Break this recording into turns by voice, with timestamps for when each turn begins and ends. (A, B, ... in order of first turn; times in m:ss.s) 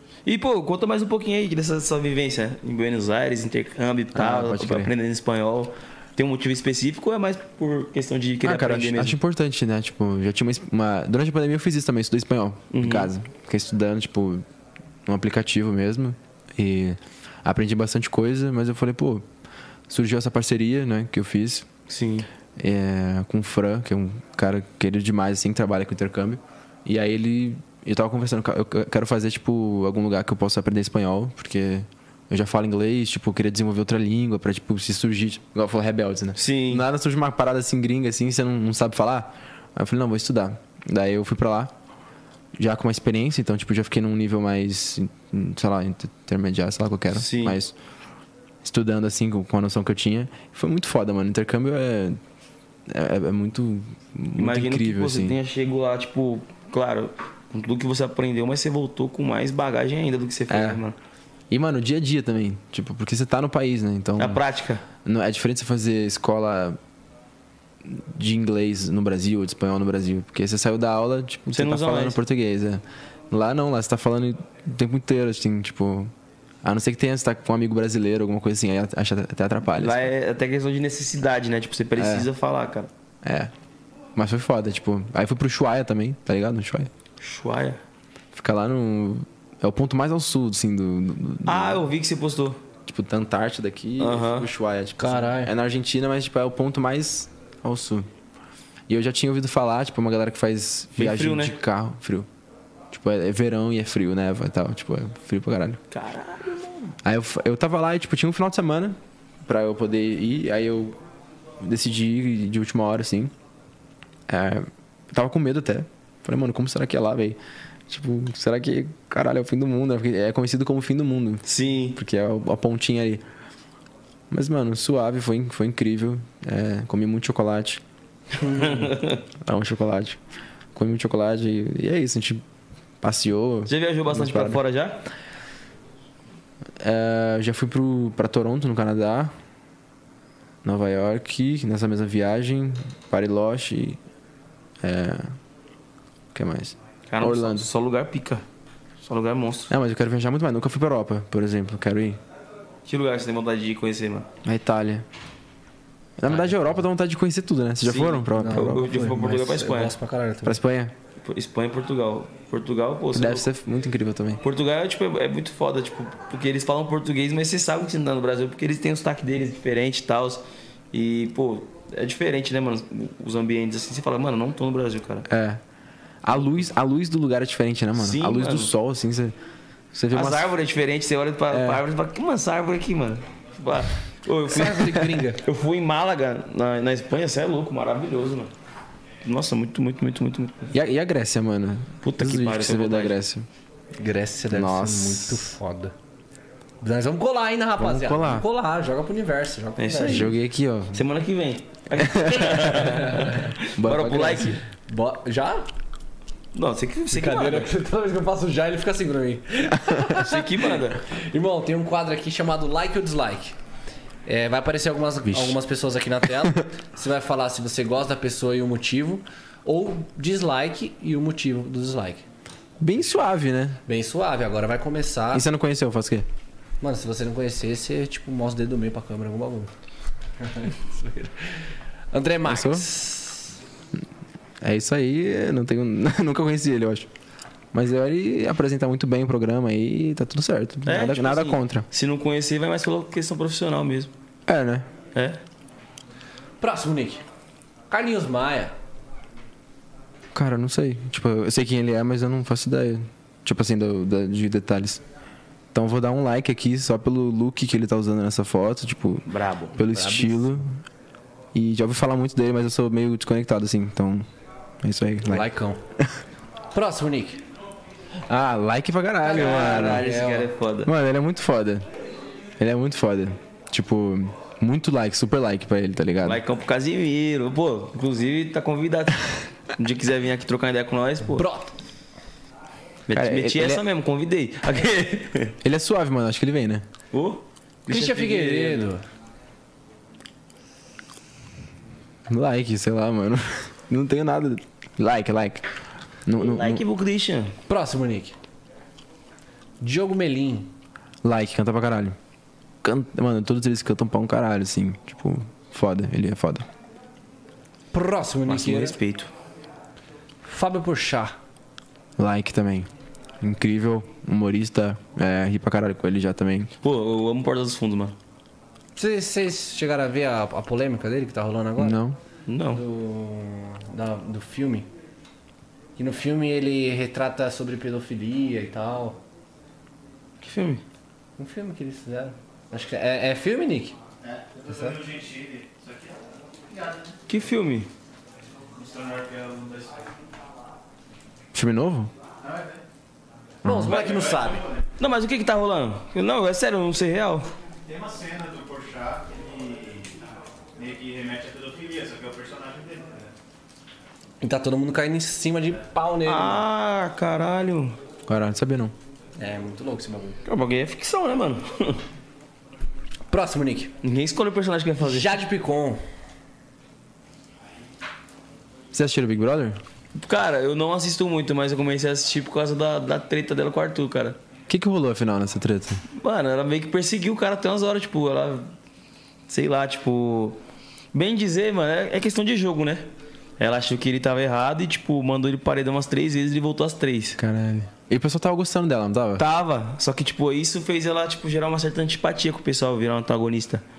0:00.2-0:09.2 A
0:04.1-0:04.9 B
0:08.4-0:14.4 B
0:12.7-0:13.1 A
0:15.0-0:19.3 B
0:19.9-0:21.7 B
0:21.9-0:22.3 A
0:22.6-0:41.7 B
0:36.4-0:36.8 A
0:42.6-0:47.7 B
0:47.1-0:47.6 A
0:48.6-0:52.2 B
0:52.9-0:55.4 B
0:54.4-1:01.0 A
1:00.5-1:00.8 B
1:01.5-1:04.4 B
1:04.2-1:04.8 A
1:05.0-1:06.8 B
1:07.8-1:16.1 B
1:11.5-1:12.2 A
1:16.6-1:20.1 B
1:19.7-1:22.9 A
1:22.0-1:22.3 B
1:23.2-1:23.5 B
1:24.2-1:26.9 B
1:27.2-1:27.8 A
1:28.3-1:31.8 B
1:31.4-1:32.6 A
1:32.8-1:38.1 B
1:34.0-1:34.5 A
1:35.0-1:35.5 C
1:38.9-1:42.3 B
1:41.0-1:41.6 A
1:42.9-1:45.8 B
1:45.9-1:47.0 A
1:47.0-1:51.0 B
1:51.6-1:53.3 B
1:54.3-2:01.4 B
2:01.4-2:02.0 A
2:01.9-2:03.2 B
2:04.3-2:07.8 B
2:08.4-2:09.2 A
2:09.4-2:10.2 B
2:10.7-2:12.4 B
2:13.0-2:14.6 B
2:13.7-2:15.0 A
2:16.8-2:19.3 B
2:20.6-2:24.0 B
2:24.8-2:25.3 B
2:26.3-2:27.7 B
2:27.1-2:28.4 A
2:29.0-2:29.7 A
2:29.7-2:32.2 B
2:32.8-2:34.3 A
2:34.4-2:35.0 B
2:36.2-2:38.9 B
2:36.3-2:36.7 A
2:37.8-2:39.9 A
2:38.4-2:40.6 C
2:40.4-2:40.9 B
2:41.2-2:43.5 A
2:43.1-2:44.4 B
2:44.4-2:50.4 A
2:50.9-2:55.3 A
2:55.3-2:55.6 B
2:56.2-2:59.3 B
2:58.0-2:58.7 A
2:59.9-3:00.5 B
3:00.1-3:08.5 A
3:01.5-3:01.8 B
3:04.5-3:05.4 C
3:09.2-3:10.7 A
3:10.7-3:13.5 B
3:12.0-3:13.2 A
3:14.0-3:15.9 C
3:14.5-3:15.6 B
3:16.8-3:20.3 C
3:17.8-3:18.4 B
3:19.8-3:20.4 A
3:20.0-3:21.0 B
3:20.9-3:24.6 A
3:22.0-3:23.2 B
3:23.8-3:24.6 B
3:24.8-3:25.7 C
3:26.5-3:27.7 A
3:27.1-3:33.5 C
3:29.7-3:30.1 B
3:30.2-3:31.0 A
3:34.2-3:42.2 C
3:35.2-3:35.6 B
3:42.8-3:43.8 B
3:43.8-3:45.5 C
3:45.3-3:46.3 B
3:46.8-3:49.7 C
3:50.4-3:51.5 C
3:52.1-3:53.6 C
3:52.4-3:52.8 B
3:54.6-3:57.1 B
3:57.7-4:01.8 B
4:00.8-4:04.1 A
4:04.5-4:04.9 B
4:05.1-4:05.4 A
4:06.6-4:07.2 C
4:07.9-4:08.7 C
4:10.3-4:15.0 B
4:15.7-4:20.8 B
4:19.3-4:19.8 A
4:19.9-4:20.6 C
4:21.5-4:24.3 B
4:24.8-4:26.2 B
4:25.2-4:25.8 C
4:26.7-4:27.4 C
4:28.3-4:30.1 B
4:29.2-4:30.9 A
4:29.3-4:30.5 C
4:30.8-4:31.8 B
4:32.6-4:36.4 B
4:36.2-4:41.4 A
4:41.3-4:41.7 C
4:43.1-4:45.5 A
4:43.1-4:43.8 B
4:45.6-4:46.8 B
4:47.1-4:48.9 A
4:47.9-4:49.0 C
4:52.3-4:55.7 B
4:56.2-4:56.8 B
4:56.4-4:57.5 A
4:57.7-4:58.4 C
4:59.8-5:00.7 C
5:01.2-5:02.2 B
5:02.8-5:06.7 B
5:07.9-5:09.0 C
5:08.5-5:09.3 A
5:10.4-5:11.4 C
5:12.2-5:12.9 B
5:13.4-5:16.7 B
5:16.8-5:18.2 A
5:19.0-5:22.0 C
5:21.8-5:22.2 B
5:22.5-5:22.8 A
5:22.7-5:24.9 C
5:26.0-5:29.2 C
5:30.4-5:30.8 A
5:31.4-5:33.9 C
5:34.2-5:37.1 D
5:34.7-5:35.0 C
5:37.3-5:37.9 A
5:38.7-5:40.1 D
5:41.5-5:42.1 B
5:42.4-5:42.8 D
5:43.6-5:44.0 B
5:43.6-5:44.6 C
5:43.8-5:44.8 D
5:44.1-5:47.5 A
5:47.8-5:50.2 D
5:50.8-5:53.3 D
5:54.4-5:56.6 C
5:56.2-5:58.0 A
5:58.3-5:58.9 B
5:59.4-6:00.4 C
6:00.4-6:02.0 A
6:03.3-6:03.9 C
6:04.0-6:05.4 A
6:05.0-6:06.0 C
6:08.9-6:09.8 B
6:10.2-6:14.4 A
6:14.7-6:16.0 B
6:16.1-6:18.7 A
6:19.5-6:20.6 A
6:21.1-6:23.1 A
6:23.6-6:27.4 A
6:27.4-6:29.4 B
6:29.4-6:33.8 A